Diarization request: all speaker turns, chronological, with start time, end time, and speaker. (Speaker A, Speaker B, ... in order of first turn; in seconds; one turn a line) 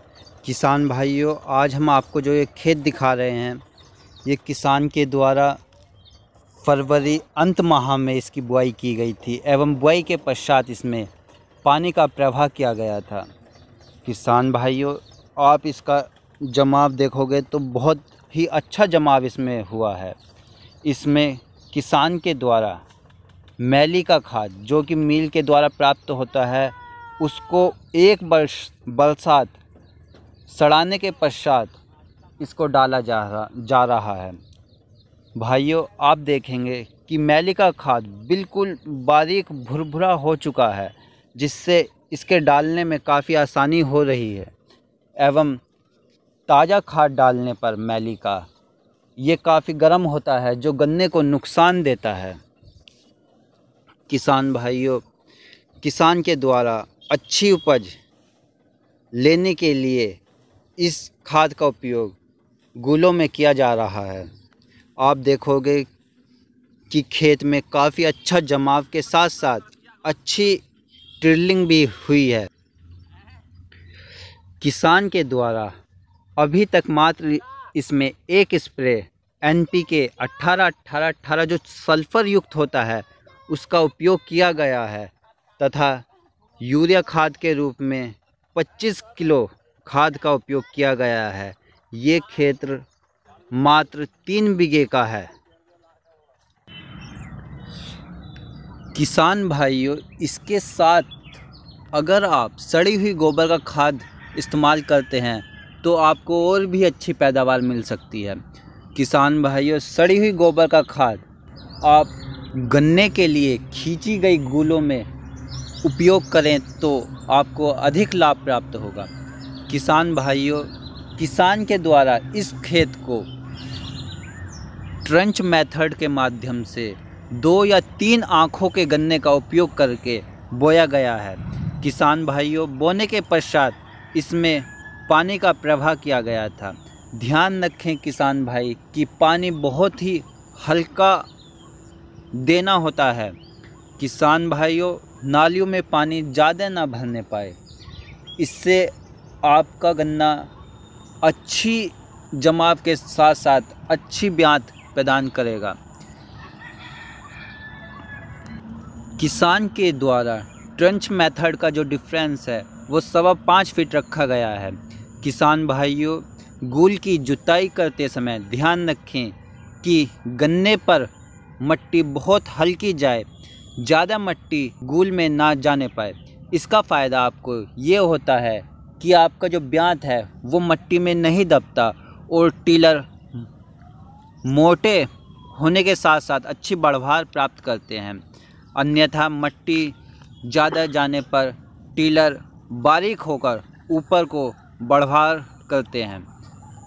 Speaker A: 0.4-3.6
Speaker A: 4.2-5.6
Speaker A: 6.6-11.1
Speaker A: 11.6-13.3
Speaker A: 14.1-20.2
Speaker A: 20.8-22.8
Speaker A: 23.6-29.6
Speaker A: 30.5-31.8
Speaker A: 32.4-34.4
Speaker A: 35.4-44.5
Speaker A: 45.2-45.6
Speaker A: 46.5-48.5
Speaker A: 49.2-52.4
Speaker A: 54.1-55.0
Speaker A: 55.8-58.0
Speaker A: 59.1-60.2
Speaker A: 60.8-62.2
Speaker A: 62.8-64.3
Speaker A: 65.0-65.9
Speaker A: 66.9-70.6
Speaker A: 71.2-72.5
Speaker A: 74.6-75.7
Speaker A: 76.4-86.0
Speaker A: 86.6-92.9
Speaker A: 93.5-95.3
Speaker A: 98.9-101.2
Speaker A: 101.9-108.4
Speaker A: 108.9-111.2
Speaker A: 111.8-115.1
Speaker A: 115.8-119.1
Speaker A: 119.7-123.3
Speaker A: 125.0-141.3
Speaker A: 142.3-143.4
Speaker A: 144.0-147.6
Speaker A: 148.4-148.9
Speaker A: 149.4-150.5
Speaker A: 151.2-155.8
Speaker A: 159.2-183.5
Speaker A: 184.4-188.2
Speaker A: 188.8-196.3